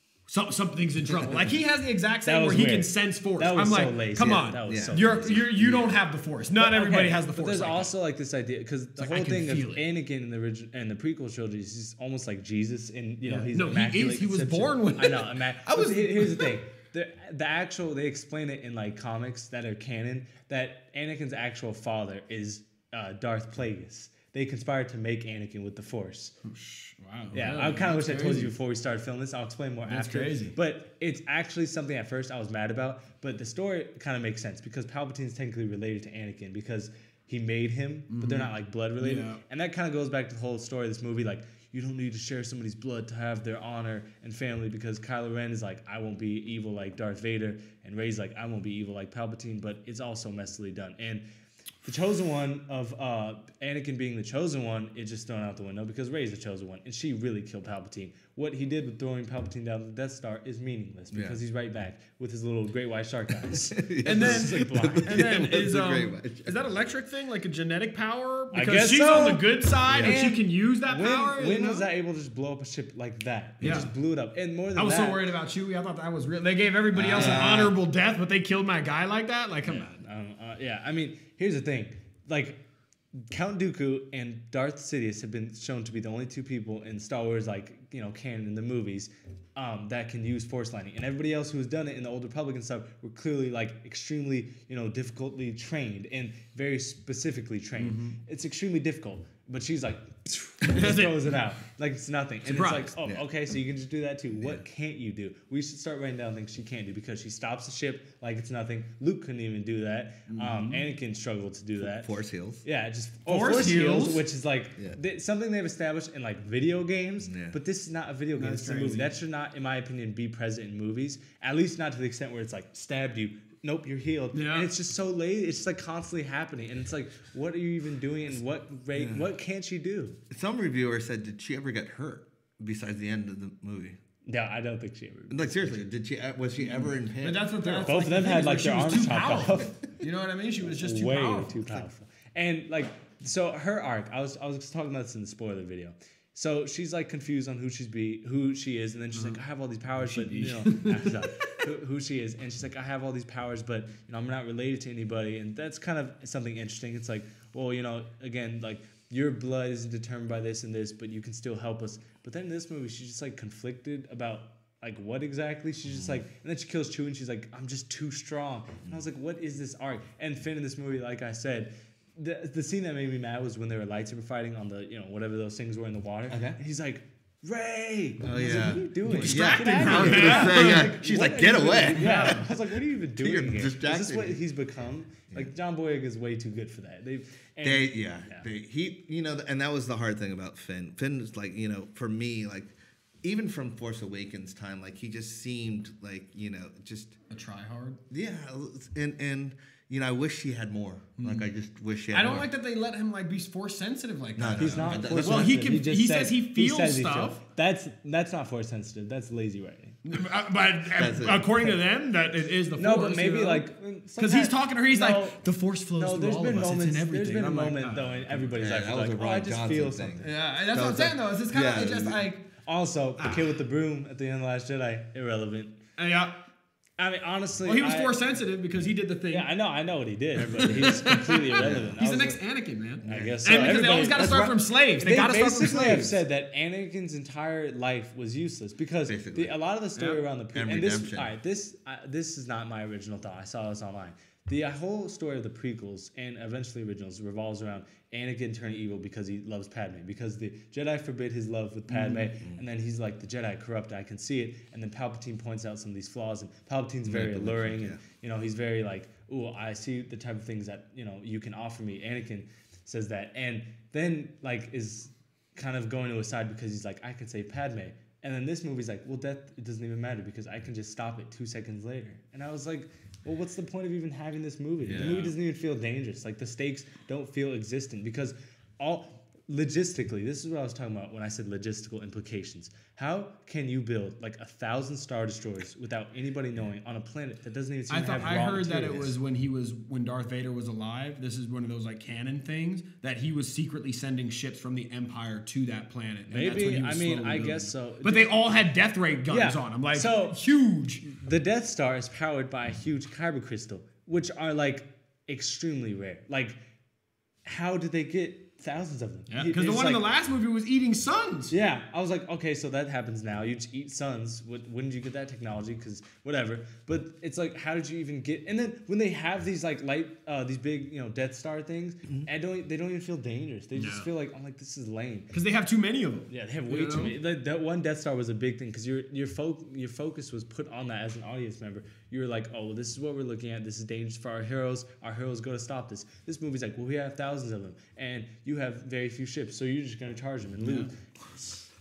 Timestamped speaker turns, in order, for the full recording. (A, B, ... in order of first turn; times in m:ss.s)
0:00.3-0:07.9 A
0:02.2-0:05.4 B
0:04.7-0:05.9 C
0:06.6-0:26.3 B
0:09.0-0:09.8 A
0:13.2-0:16.6 A
0:26.4-0:28.5 A
0:27.3-0:51.2 B
0:29.8-0:30.5 A
0:38.1-0:39.4 A
0:51.8-1:05.2 B
1:01.1-1:01.4 C
1:03.4-1:06.6 C
1:04.0-1:11.9 A
1:08.5-1:15.2 B
1:09.8-1:10.2 C
1:13.6-1:13.9 A
1:14.8-1:20.0 A
1:16.9-1:17.8 C
1:17.1-1:17.5 B
1:19.6-1:22.6 B
1:23.1-1:52.1 B
1:37.8-1:38.2 A
1:40.6-1:41.5 A
1:42.4-1:42.9 A
1:44.4-1:44.6 C
1:50.3-1:50.9 A
1:51.8-1:52.6 C
1:52.6-2:10.2 B
1:53.2-1:54.2 A
1:57.2-1:57.6 C
1:58.3-1:59.1 A
2:04.3-2:04.7 A
2:09.0-2:09.3 C
2:10.3-2:14.0 C
2:14.2-2:15.9 B
2:15.3-2:17.9 C
2:16.6-2:21.6 A
2:17.7-2:19.7 B
2:20.6-3:08.4 B
2:29.1-2:29.4 A
2:30.0-2:31.5 A
2:56.3-2:56.6 C
2:58.2-3:04.4 C
2:59.0-3:02.4 A
3:07.6-3:17.2 C
3:17.3-3:18.0 A
3:18.1-3:22.5 C
3:21.2-3:21.5 A
3:22.1-3:27.4 A
3:24.4-3:25.6 C
3:24.6-3:30.0 B
3:30.0-3:33.6 A
3:30.9-3:31.5 C
3:32.8-3:35.4 B
3:34.2-3:38.4 A
3:36.0-3:40.2 B
3:38.5-3:42.2 C
3:40.2-3:42.5 A
3:42.6-3:45.8 B
3:43.2-3:43.5 A
3:46.0-3:46.4 A
3:47.0-3:48.2 B
3:47.6-3:49.5 A
3:49.3-3:52.4 B
3:50.4-3:56.2 A
3:50.5-3:51.0 C
3:51.6-3:52.0 C
3:53.0-3:54.5 C
3:53.0-4:49.1 B
3:59.1-3:59.5 C
4:00.5-4:01.3 C
4:11.9-4:12.2 A
4:17.0-4:18.0 C
4:34.8-4:35.4 C
4:47.9-5:01.0 A
4:56.3-4:58.3 B
4:59.3-5:00.4 B
5:01.0-5:06.6 B
5:07.4-5:10.0 B
5:09.3-5:11.5 A
5:11.5-5:25.3 B
5:23.7-5:24.1 A
5:25.3-5:27.1 A
5:26.3-5:41.5 B
5:40.6-5:40.9 A